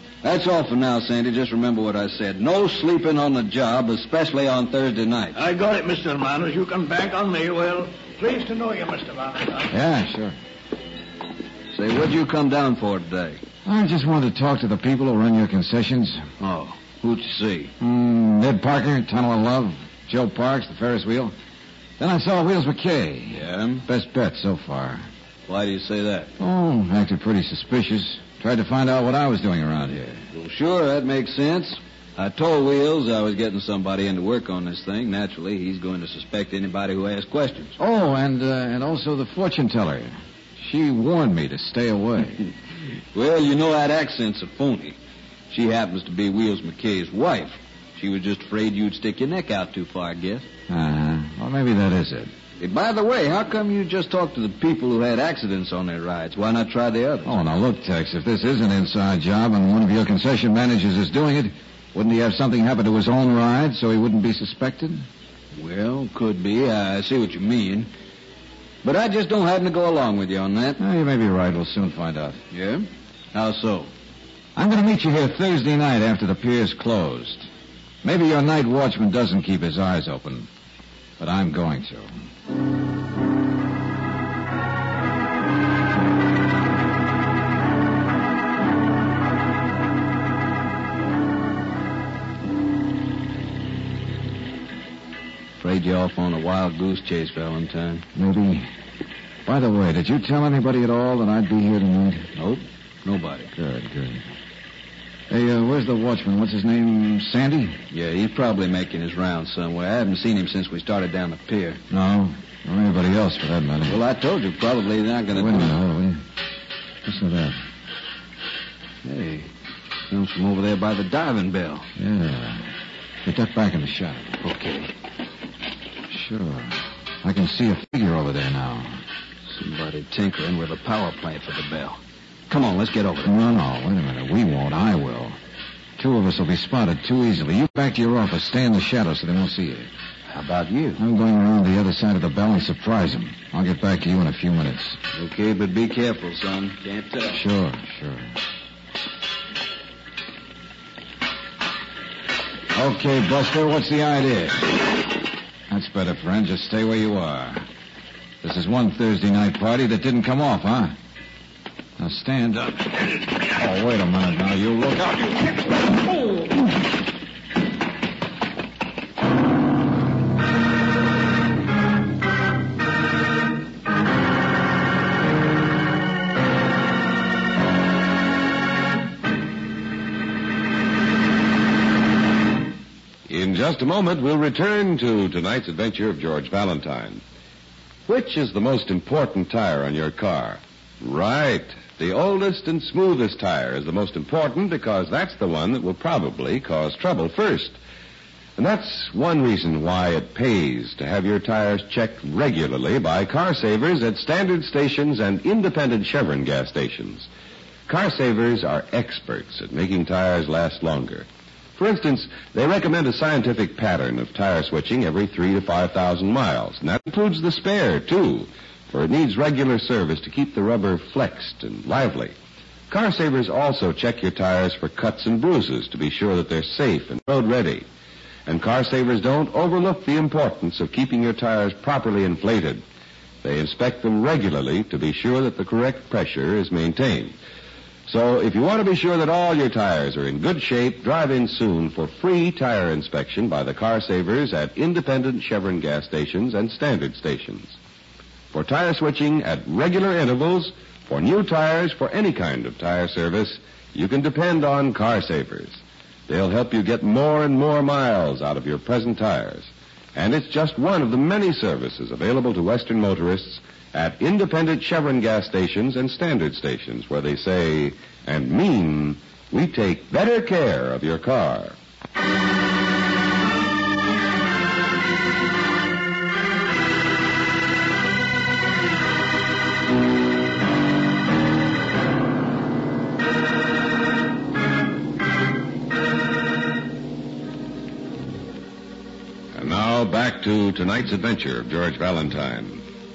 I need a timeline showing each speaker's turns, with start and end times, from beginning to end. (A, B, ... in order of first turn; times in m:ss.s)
0:00.2-0:05.4 A
0:05.4-0:09.7 B
0:09.7-0:10.4 C
0:11.7-0:13.4 A
0:13.7-0:16.3 C
0:16.4-0:17.7 A
0:17.8-0:21.4 C
0:22.0-0:25.1 C
0:23.3-0:23.8 A
0:25.5-0:26.3 A
0:26.4-0:30.2 C
0:30.3-0:37.8 A
0:37.8-0:42.5 C
0:43.1-0:45.0 A
0:45.5-0:50.5 A
0:50.7-0:52.3 C
0:52.6-0:57.3 A
0:57.2-1:05.0 C
1:05.6-1:07.9 A
1:08.8-1:10.8 A
1:10.8-1:12.4 C
1:12.5-1:13.9 A
1:14.6-1:17.5 C
1:18.0-1:20.5 C
1:21.2-1:22.1 C
1:35.6-1:38.0 A
1:38.2-1:38.7 C
1:39.5-1:42.3 C
1:42.4-1:43.5 A
1:43.5-1:44.2 C
1:45.3-1:47.8 C
1:47.9-1:51.8 A
1:51.9-1:54.0 C
1:53.9-1:55.8 A
1:55.3-1:56.2 C
1:57.0-1:57.6 C
1:59.0-1:59.5 A
2:00.1-2:01.9 A
2:02.0-2:02.7 C
2:03.2-2:04.4 C
2:04.4-2:04.9 A
2:06.1-2:09.0 C
2:09.5-2:13.3 A
2:13.2-2:15.4 C
2:16.0-2:19.9 C
2:20.3-2:21.0 A
2:21.0-2:25.0 C
2:25.1-2:27.4 A
2:27.3-2:28.3 C
2:32.7-2:34.8 C
2:35.7-2:37.6 C
2:38.4-2:41.0 C
2:42.0-2:42.9 C
2:43.5-2:45.6 C
3:03.3-3:07.2 D
3:08.1-3:17.8 D
3:18.6-3:27.3 D
3:27.9-3:42.4 D
3:42.9-3:47.9 D
3:48.5-3:52.8 D
3:53.4-3:57.4 D
3:58.1-4:07.8 D
4:08.5-4:31.8 D
4:49.6-4:52.8 D